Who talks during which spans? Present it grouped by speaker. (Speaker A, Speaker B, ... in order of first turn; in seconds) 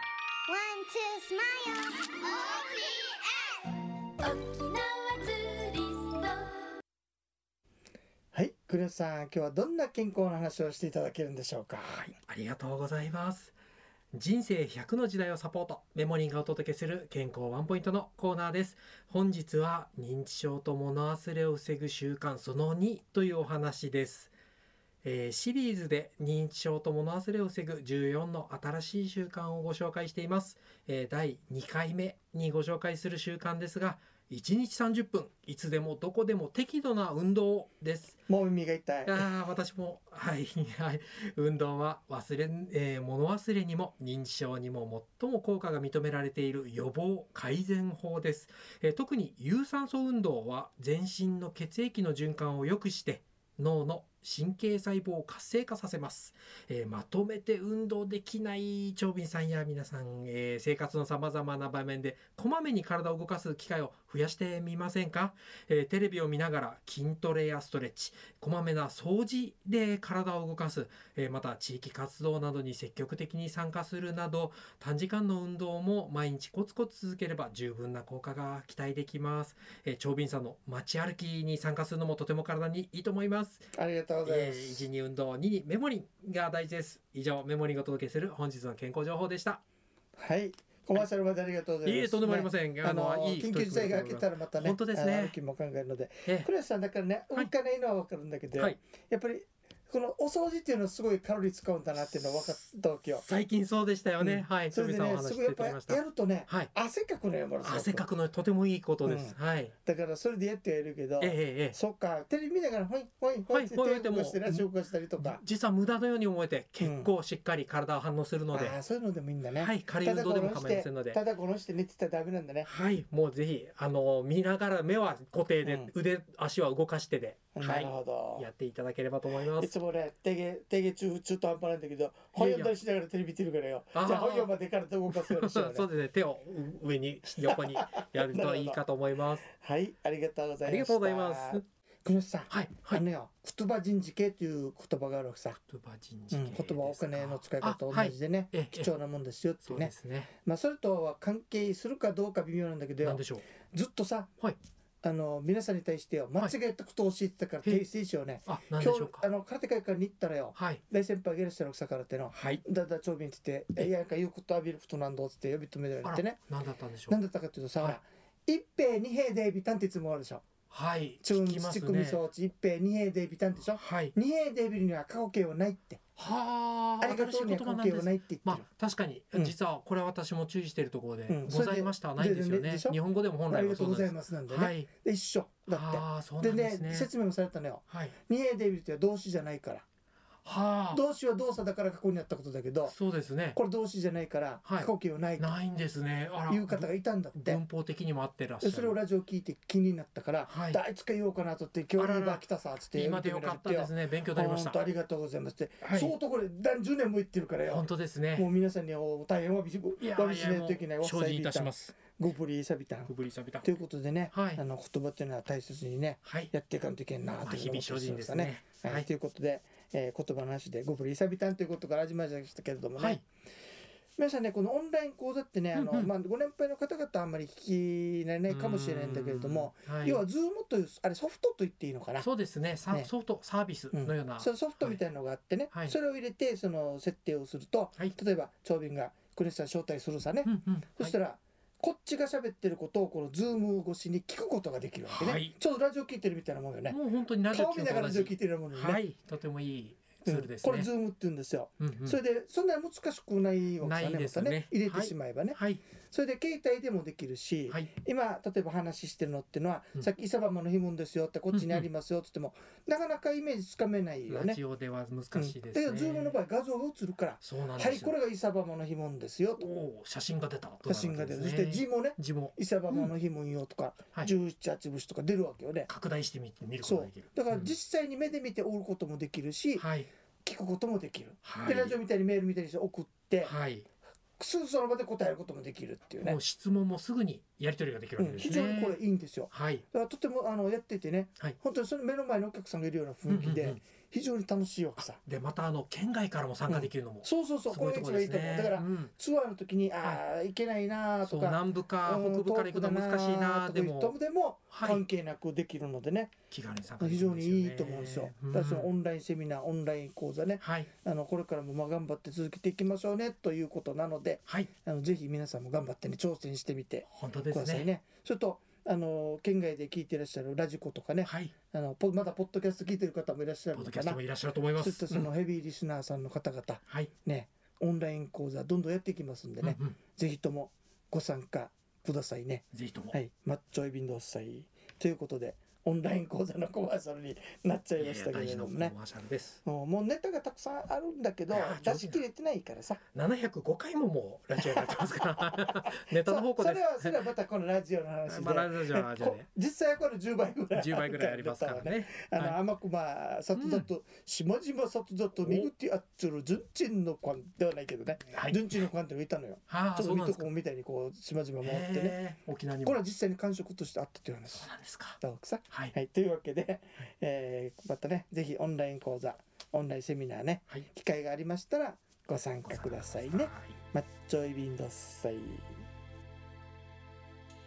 Speaker A: 0.5-6.7
Speaker B: 8.3-12.1, 38.3-39.3, 83.7-84.9, 90.2-103.2, 104.2-108.0, 109.0-115.4, 116.8-117.1, 118.5-122.7, 125.6-125.9, 127.5-128.5, 129.5-135.9, 137.5-138.8, 139.5-145.6, 146.3-154.3, 155.0-166.4, 167.1-170.5, 171.2-176.0, 177.0-178.6, 181.3-183.0, 183.5-189.9, 190.9-193.0, 193.6-195.6, 196.5-197.6, 198.6-223.2, 224.2-232.3, 233.9-247.0, 247.5-249.0, 250.3-264.6, 265.4-269.7, 270.9-275.9, 276.8-279.9, 280.4-283.5, 284.4-286.4, 288.2-295.2, 296.7-306.3, 307.0-324.2, 324.8-338.9, 339.6-343.0, 344.6-362.2, 362.8-375.8
Speaker C: 11.8-13.5, 14.1-24.3, 25.0-38.2, 39.1-83.7, 84.2-89.6, 91.8-95.4, 103.2-106.7, 107.6-109.7, 111.2-111.8, 113.5-118.8, 119.5-121.2, 122.7-129.7, 132.4-132.7, 133.9-134.5, 135.1-139.5, 140.6-141.6, 142.5-143.0, 145.7-148.9, 149.6-150.3, 153.0-153.4, 158.5-159.3, 160.6-160.8, 162.3-162.6, 166.0-167.2, 170.7-172.2, 173.7-174.2, 176.2-184.9, 185.7-187.1, 187.9-188.2, 190.4-191.0, 192.9-193.6, 194.7-199.0, 200.4-200.8, 202.0-204.8, 205.8-206.2, 207.7-208.5, 210.0-212.1, 213.1-213.7, 214.3-214.6, 216.2-216.5, 217.4-219.1, 223.0-223.2, 225.7-226.1, 228.5-230.2, 232.2-235.0, 240.4-241.1, 245.1-245.6, 246.9-250.9, 251.8-252.2, 253.8-255.8, 261.5-261.9, 264.3-266.4, 267.4-268.1, 269.6-273.1, 275.9-277.7, 279.8-280.1, 281.4-282.0, 283.4-283.9, 286.2-289.0, 289.5-289.9, 293.3-293.8, 295.0-299.1, 301.2-304.2, 304.7-305.0, 306.5-308.9, 310.6-310.9, 317.1-317.9, 321.2-321.5, 323.7-325.3, 329.6-330.0, 332.7-333.2, 338.0-339.6, 341.5-342.2, 343.1-347.3, 348.3-349.5, 350.7-352.6, 353.6-353.9, 355.4-355.7, 358.3-358.7, 359.7-360.5, 361.6-363.0, 364.5-365.2, 372.6-373.8